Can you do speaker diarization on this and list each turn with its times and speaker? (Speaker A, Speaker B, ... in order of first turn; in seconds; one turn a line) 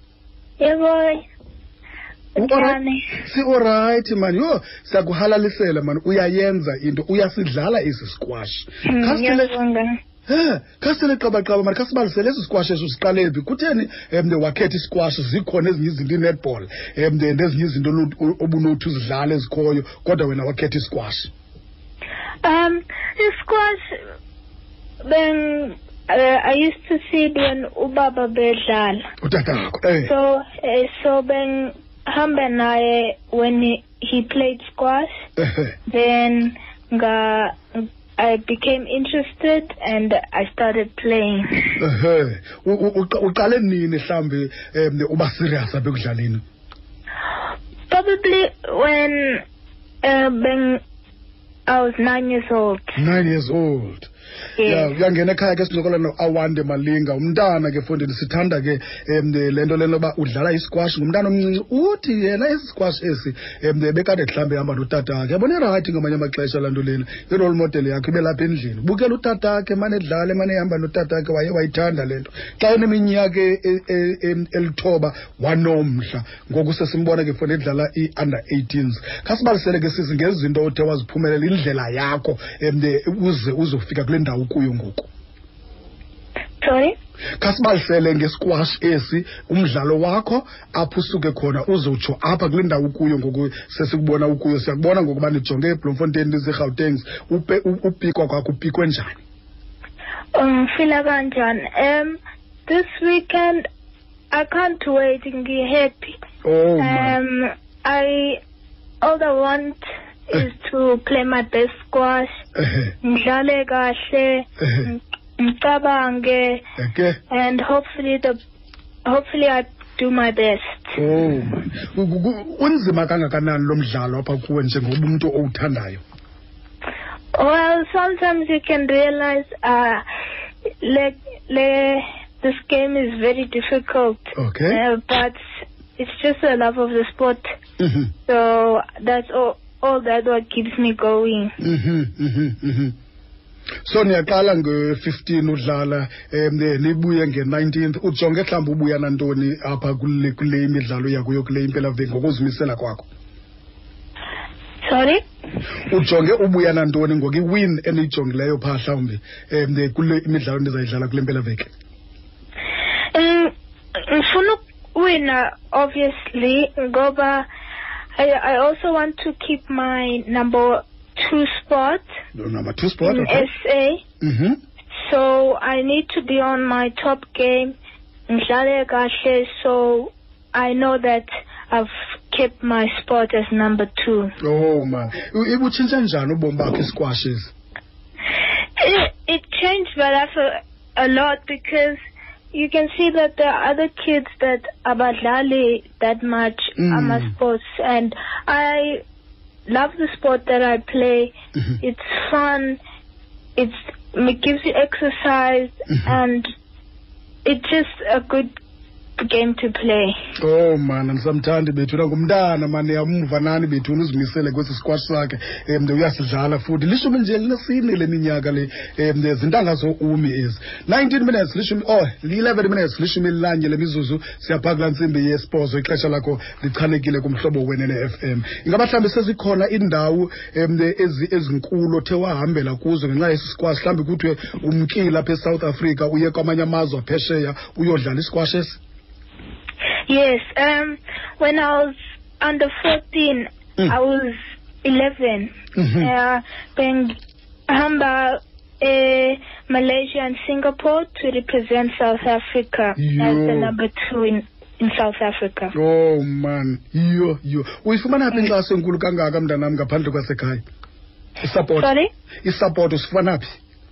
Speaker A: 0.6-1.2
Speaker A: 2.4-3.1
Speaker B: 2.4-9.5
Speaker A: 8.8-9.9
Speaker B: 10.3-21.3
Speaker A: 22.4-23.9
Speaker A: 25.1-29.0
Speaker B: 29.2-30.1
Speaker A: 30.0-35.1
Speaker B: 35.4-35.7
Speaker A: 35.9-41.8
Speaker B: 41.8-46.4
Speaker A: 47.9-49.4
Speaker A: 50.0-50.8
Speaker A: 51.7-52.9
Speaker B: 53.0-54.1
Speaker A: 54.6-54.9
Speaker B: 54.6-85.1
Speaker A: 86.6-86.9
Speaker B: 87.4-99.2
Speaker A: 100.3-103.6
Speaker A: 104.3-106.2
Speaker B: 106.4-107.2
Speaker A: 106.8-108.4
Speaker A: 109.0-112.3
Speaker B: 112.5-112.9
Speaker A: 113.0-116.6
Speaker B: 114.6-114.9
Speaker B: 116.8-117.2
Speaker A: 117.3-118.3
Speaker A: 119.0-120.9
Speaker B: 121.0-126.0
Speaker A: 127.3-130.0
Speaker A: 130.8-135.4
Speaker B: 134.3-134.8
Speaker A: 136.0-137.4
Speaker B: 137.8-138.1
Speaker A: 138.2-141.5
Speaker B: 141.6-142.9
Speaker B: 143.8-153.1
Speaker A: 154.8-155.2
Speaker B: 155.9-161.7
Speaker A: 163.1-167.5
Speaker A: 168.2-172.0
Speaker B: 172.3-173.5
Speaker A: 173.0-174.0
Speaker B: 174.2-174.6
Speaker A: 175.0-177.7
Speaker A: 178.3-184.3
Speaker B: 184.4-187.5
Speaker A: 188.8-191.9
Speaker A: 192.5-199.0
Speaker B: 196.8-197.3
Speaker A: 199.7-202.8
Speaker A: 203.6-206.4
Speaker A: 207.4-208.5
Speaker A: 209.2-210.1
Speaker B: 210.4-238.8
Speaker A: 240.1-247.1
Speaker B: 245.8-246.1
Speaker A: 247.7-255.7
Speaker B: 253.0-253.7
Speaker B: 255.7-260.6
Speaker B: 261.4-261.9
Speaker A: 261.8-262.1
Speaker B: 262.4-263.6